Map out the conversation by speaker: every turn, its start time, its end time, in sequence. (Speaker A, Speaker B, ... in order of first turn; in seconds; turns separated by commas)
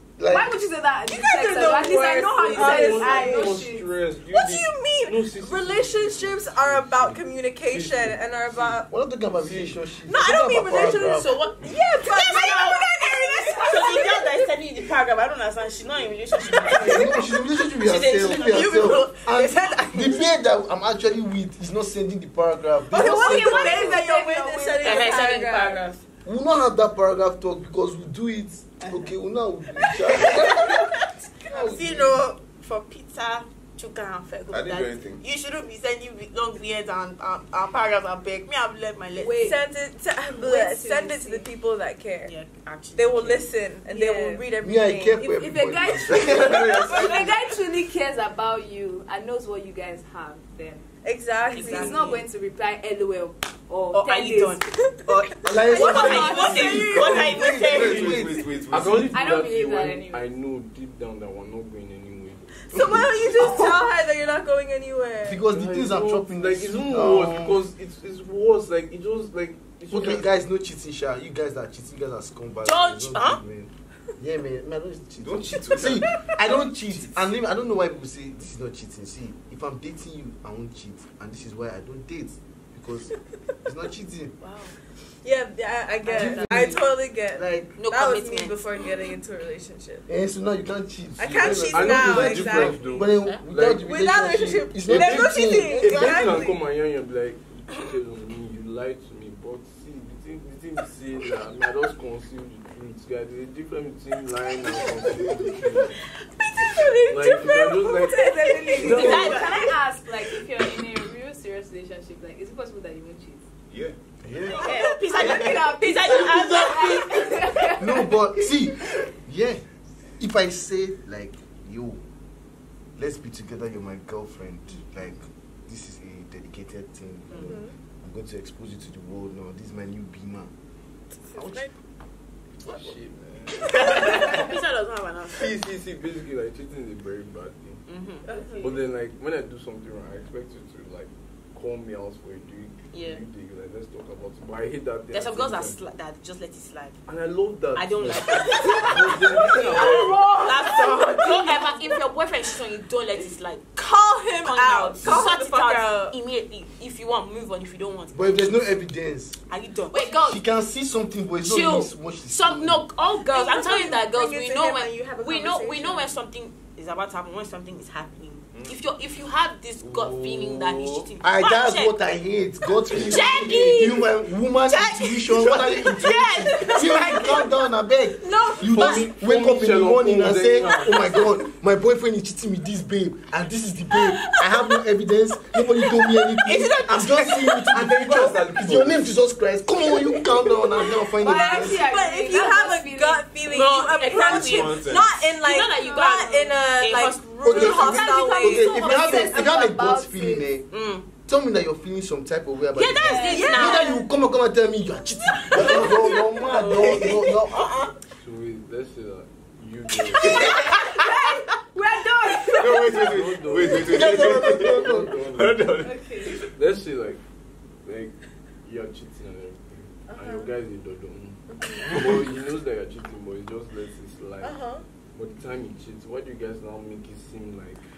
Speaker A: 0.2-0.6, Speaker B: 0.3-3.9, Speaker C: 1.1-3.6, Speaker D: 2.4-8.8, Speaker C: 4.3-8.9, Speaker A: 8.9-11.3, Speaker D: 9.4-9.8, Speaker C: 10.0-14.2, Speaker E: 11.0-20.2, Speaker A: 16.8-24.0, Speaker C: 22.9-25.8, Speaker B: 22.9-25.1, Speaker E: 24.7-26.0, Speaker A: 26.2-30.8, Speaker E: 28.8-29.1, Speaker E: 30.2-39.6, Speaker A: 31.5-32.2, Speaker F: 34.5-35.2, Speaker B: 39.2-39.6, Speaker C: 39.4-42.3, Speaker B: 40.3-41.5, Speaker E: 42.2-44.4, Speaker C: 43.0-45.4, Speaker A: 44.6-47.1, Speaker B: 45.3-50.9, Speaker F: 46.2-47.3, Speaker C: 51.0-52.1, Speaker B: 51.5-54.6, Speaker E: 51.5-52.2, Speaker E: 53.9-54.6, Speaker C: 55.0-57.1, Speaker A: 55.4-58.4, Speaker B: 55.7-57.3, Speaker E: 55.7-58.1, Speaker F: 57.5-59.3, Speaker D: 57.9-58.2, Speaker D: 58.7-62.5, Speaker B: 59.1-60.3, Speaker C: 62.7-65.4, Speaker A: 62.7-63.8, Speaker A: 65.2-67.6, Speaker D: 65.4-70.3, Speaker A: 69.9-83.1, Speaker E: 72.6-73.4, Speaker F: 75.2-76.1, Speaker F: 76.9-77.3, Speaker A: 83.6-84.3, Speaker E: 84.4-84.8, Speaker C: 85.2-90.1, Speaker A: 86.0-87.7, Speaker E: 87.8-89.1, Speaker A: 90.1-96.4, Speaker C: 91.2-92.8, Speaker D: 91.7-93.8, Speaker E: 93.0-93.4, Speaker C: 93.8-96.6, Speaker D: 94.8-105.9, Speaker E: 104.6-105.4, Speaker E: 106.2-107.8, Speaker D: 107.1-109.4, Speaker C: 107.8-109.4, Speaker B: 108.1-113.4, Speaker E: 108.7-109.8, Speaker F: 113.7-113.9, Speaker A: 114.2-114.7, Speaker B: 114.5-118.2, Speaker E: 114.6-117.3, Speaker A: 117.8-119.6, Speaker A: 120.2-122.0, Speaker A: 123.0-130.5, Speaker E: 127.3-127.5, Speaker C: 127.4-127.7, Speaker C: 131.3-131.7, Speaker A: 131.3-131.7, Speaker D: 132.6-134.4, Speaker E: 133.7-135.6, Speaker D: 135.3-137.8, Speaker E: 137.9-138.3, Speaker C: 138.2-138.8, Speaker B: 138.3-138.7, Speaker D: 138.6-145.8, Speaker E: 142.9-143.2, Speaker E: 145.1-147.0, Speaker D: 147.1-150.2, Speaker E: 147.7-153.8, Speaker B: 149.4-152.0, Speaker C: 153.8-156.1, Speaker E: 154.4-158.6, Speaker A: 158.1-159.4, Speaker E: 159.5-160.4, Speaker C: 159.9-160.2, Speaker A: 160.2-162.8, Speaker E: 161.4-172.1, Speaker C: 163.3-166.2, Speaker A: 169.8-191.9, Speaker E: 172.9-177.6, Speaker E: 178.2-179.1, Speaker C: 178.3-178.6, Speaker D: 178.6-181.2, Speaker E: 184.1-184.7, Speaker E: 185.7-187.7, Speaker F: 187.7-189.1, Speaker E: 189.9-191.0, Speaker B: 191.2-193.2, Speaker C: 191.2-198.8, Speaker E: 193.5-198.1, Speaker F: 194.1-195.1, Speaker B: 195.7-196.2, Speaker A: 197.4-200.7, Speaker B: 197.6-200.5, Speaker E: 200.7-201.1, Speaker A: 201.2-207.7, Speaker E: 202.7-204.0, Speaker C: 203.0-203.9, Speaker E: 205.5-207.9, Speaker F: 205.6-205.9, Speaker D: 208.2-210.4, Speaker E: 210.2-210.6, Speaker B: 210.3-213.2, Speaker F: 212.5-216.5, Speaker D: 213.0-215.7, Speaker A: 213.6-215.2, Speaker B: 215.8-216.4, Speaker D: 216.5-217.2, Speaker D: 217.8-224.6, Speaker C: 220.1-220.5, Speaker C: 221.5-222.0, Speaker C: 224.4-224.8, Speaker D: 225.1-227.8